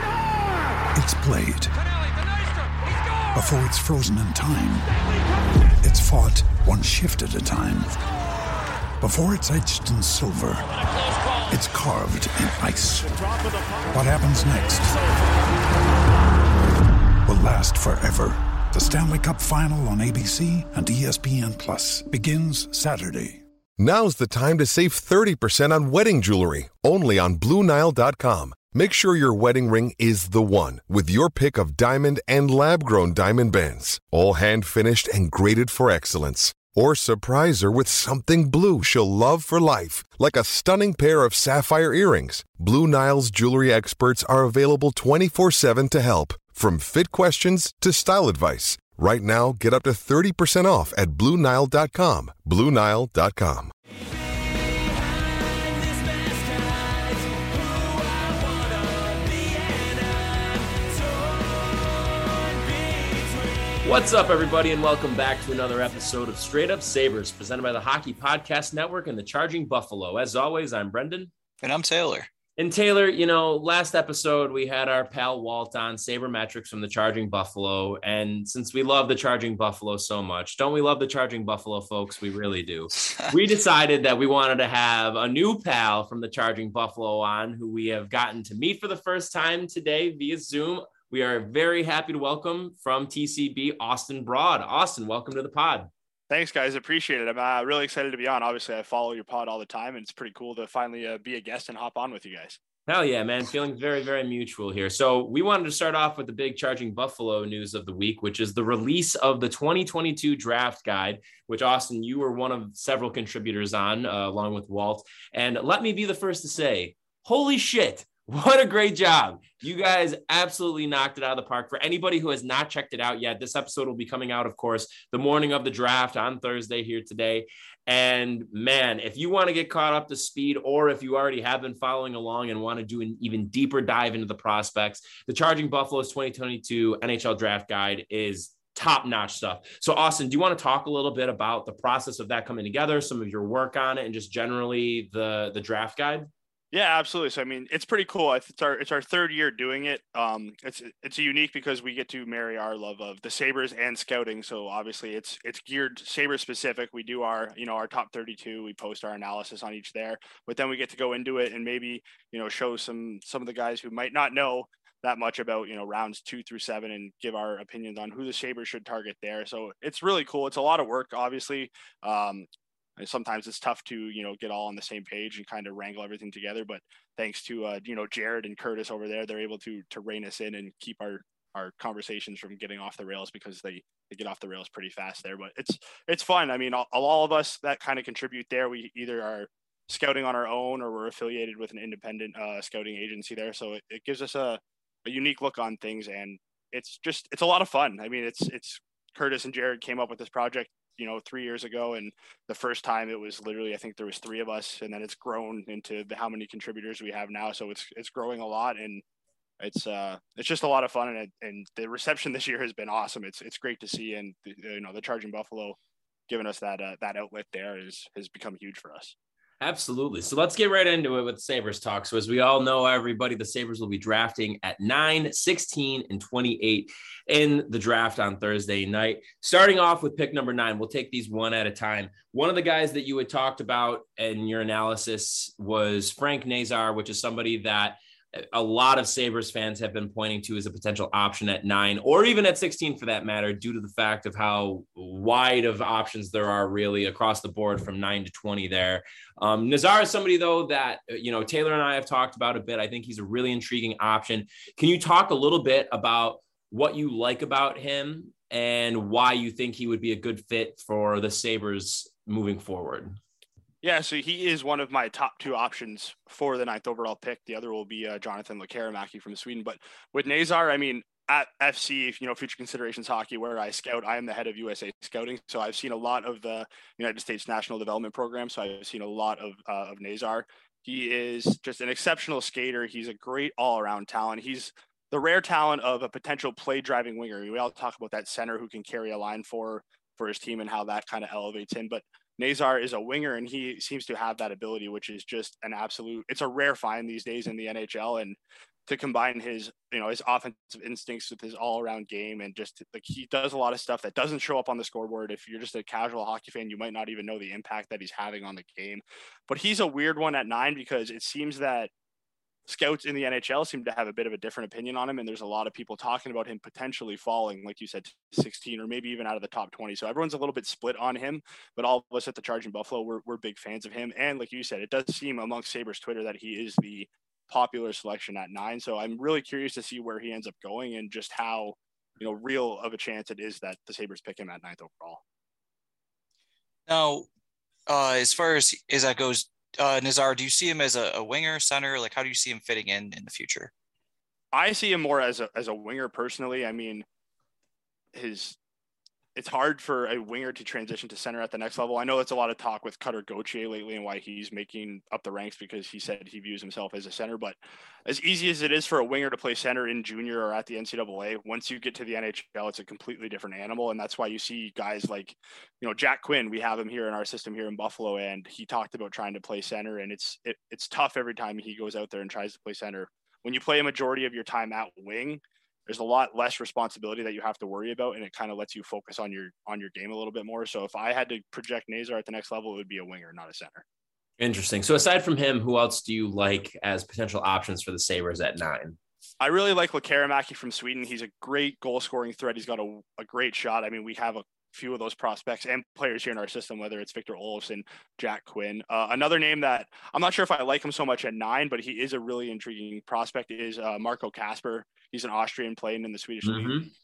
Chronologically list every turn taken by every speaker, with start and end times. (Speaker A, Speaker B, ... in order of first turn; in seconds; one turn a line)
Speaker A: 0.9-1.8
Speaker A: 3.3-5.0
Speaker A: 5.8-8.0
Speaker A: 9.0-10.7
Speaker A: 11.5-13.3
Speaker A: 13.9-15.0
Speaker A: 17.2-23.4
Speaker B: 23.8-53.7
Speaker C: 58.7-59.8
Speaker C: 63.8-71.3
Speaker D: 71.6-72.3
Speaker C: 72.6-95.9
Speaker E: 96.3-102.6
Speaker C: 102.9-146.3
Speaker E: 146.7-172.4
Speaker E: 173.0-209.0
Speaker E: 209.6-215.8
Speaker E: 216.3-219.1
Speaker C: 219.6-263.2
Speaker E: 263.8-311.9
Speaker E: 312.7-335.2
Speaker D: 336.9-337.3
Speaker D: 337.9-343.7
Speaker E: 344.5-347.0
Speaker E: 348.1-348.6
Speaker E: 349.4-383.8
Speaker C: 384.4-389.0
Speaker E: 389.4-406.7
Speaker C: 406.4-406.9